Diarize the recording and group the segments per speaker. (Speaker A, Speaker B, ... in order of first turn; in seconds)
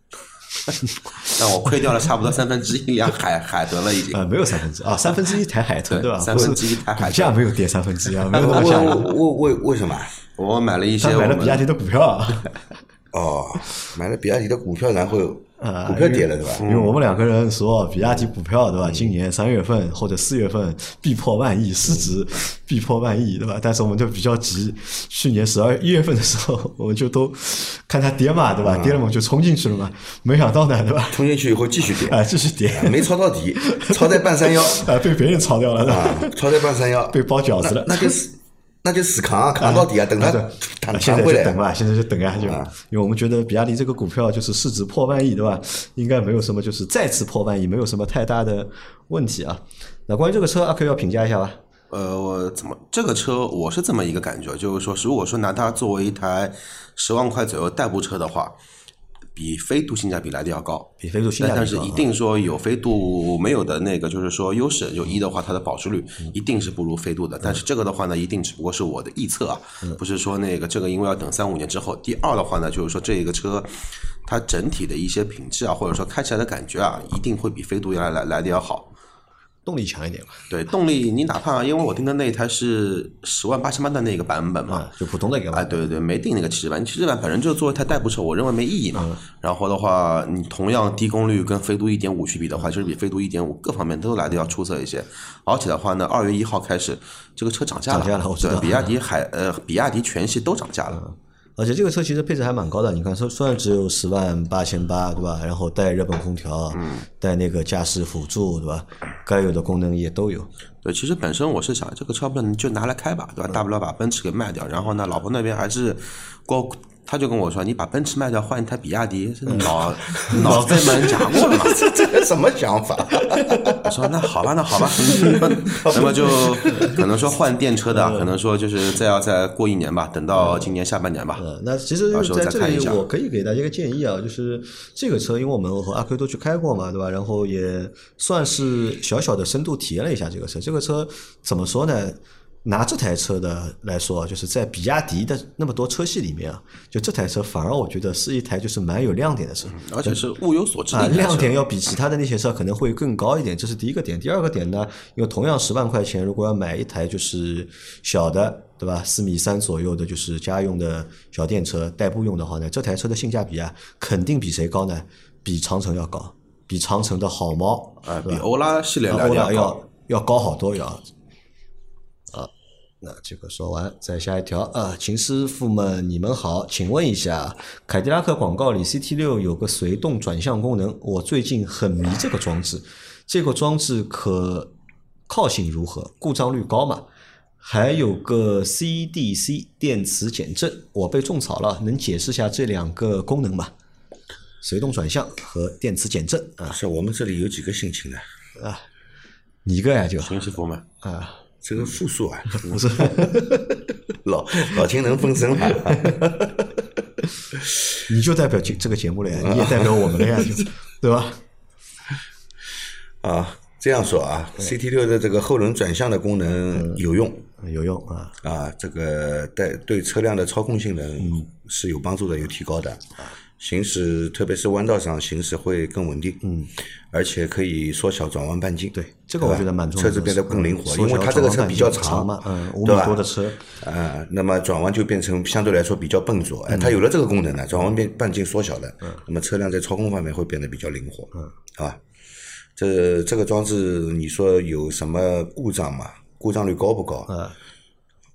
Speaker A: 0.7-4.2, 5.9-7.5, 8.1-9.1, 10.3-11.7, 16.6-17.0, 51.9-58.5, 59.3-73.7, 74.2-78.9, 80.5-84.9, 85.5-101.0, 106.7-107.0, 110.8-121.9, 123.8-131.4, 132.1-133.0, 149.7-151.6, 168.0-169.8, 200.2-200.8
Speaker B: 4.1-9.1, 11.0-12.6, 15.6-31.2, 31.9-38.2, 39.6-51.6, 61.0-62.0, 79.7-80.5, 84.7-85.9, 97.9-98.9, 100.9-110.5, 119.5-121.8, 123.3-123.8, 125.3-125.8, 126.7-127.0, 127.9-128.3, 130.3-130.8, 131.3-150.2, 150.9-168.5, 169.1-171.0, 173.0-184.7, 185.3-187.0, 187.6-193.7, 194.6-196.8, 198.6-198.8, 199.6-200.4, 201.0-201.4, 202.5-203.8, 205.7-206.3, 208.1-211.4, 216.7-217.0, 217.6-218.4, 221.2-221.5, 226.4-226.7, 228.9-233.7, 236.7-237.0, 247.3-247.5
Speaker C: 8.3-10.2, 13.1-16.6, 28.6-29.0, 31.1-34.9, 35.8-41.6, 42.4-42.7, 121.3-123.9, 124.9-127.0, 196.7-198.2, 201.6-203.2, 204.2-206.8, 207.6-207.9, 209.3-210.6, 213.2-217.5, 218.4-242.0, 242.8-247.3